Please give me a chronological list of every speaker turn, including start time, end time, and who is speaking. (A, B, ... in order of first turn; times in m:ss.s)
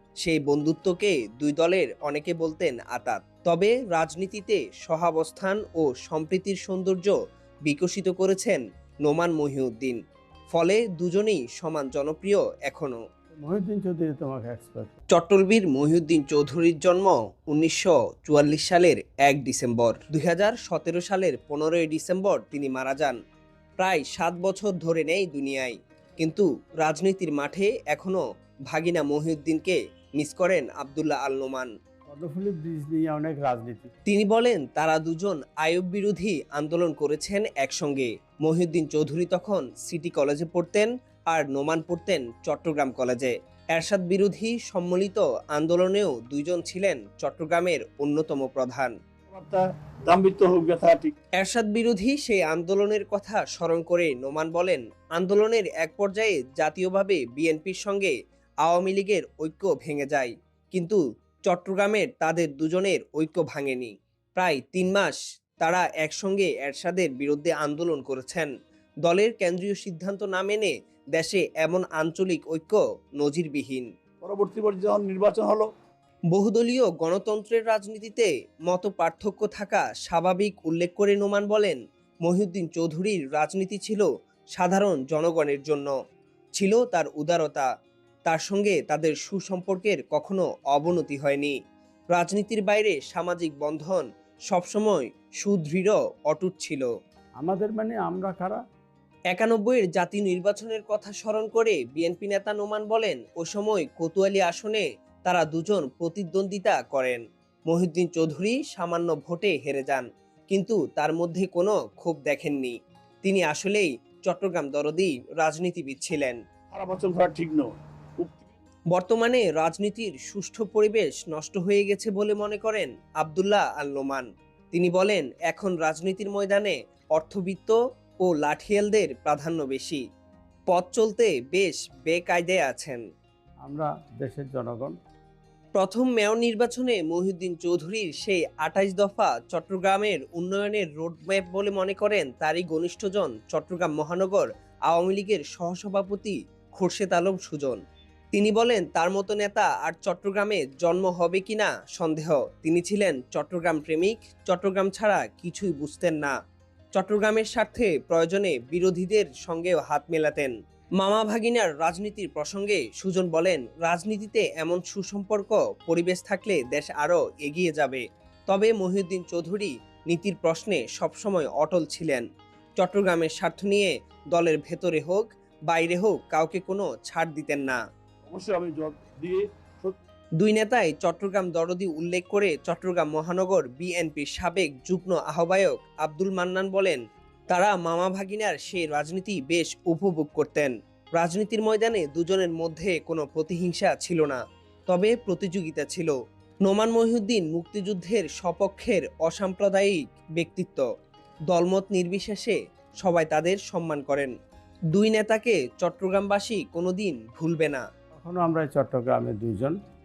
0:00.2-0:10.0 A
0:10.5-0:13.0 A
0:13.4-0:14.9 B
0:15.1-0:23.2 A
0:23.8-0:31.7 A
0:32.1-0:33.9 B
0:34.1-0:48.9 A
0:49.3-0:51.1 C
0:51.4-0:58.1 A
0:58.6-1:08.5 A
1:09.1-1:13.9 A
1:14.2-1:15.7 C
1:16.3-1:25.9 A
1:26.6-1:27.7 A
1:28.3-1:31.6 A
1:32.1-1:36.9 A
1:37.4-1:38.6 B
1:39.3-1:56.4 A
1:56.7-1:58.6 C
1:58.9-2:10.0 A
2:10.7-2:13.0 A
2:13.6-2:15.0 B
2:15.8-2:27.8 A
2:28.3-2:36.4 A
2:37.0-2:52.3 A
2:52.8-2:57.8 A
2:58.2-2:59.9 C
3:00.4-3:07.0 A
3:07.5-3:16.1 A
3:16.6-3:20.8 A
3:21.5-3:24.3 A
3:24.9-3:27.8 A
3:28.2-3:29.8 B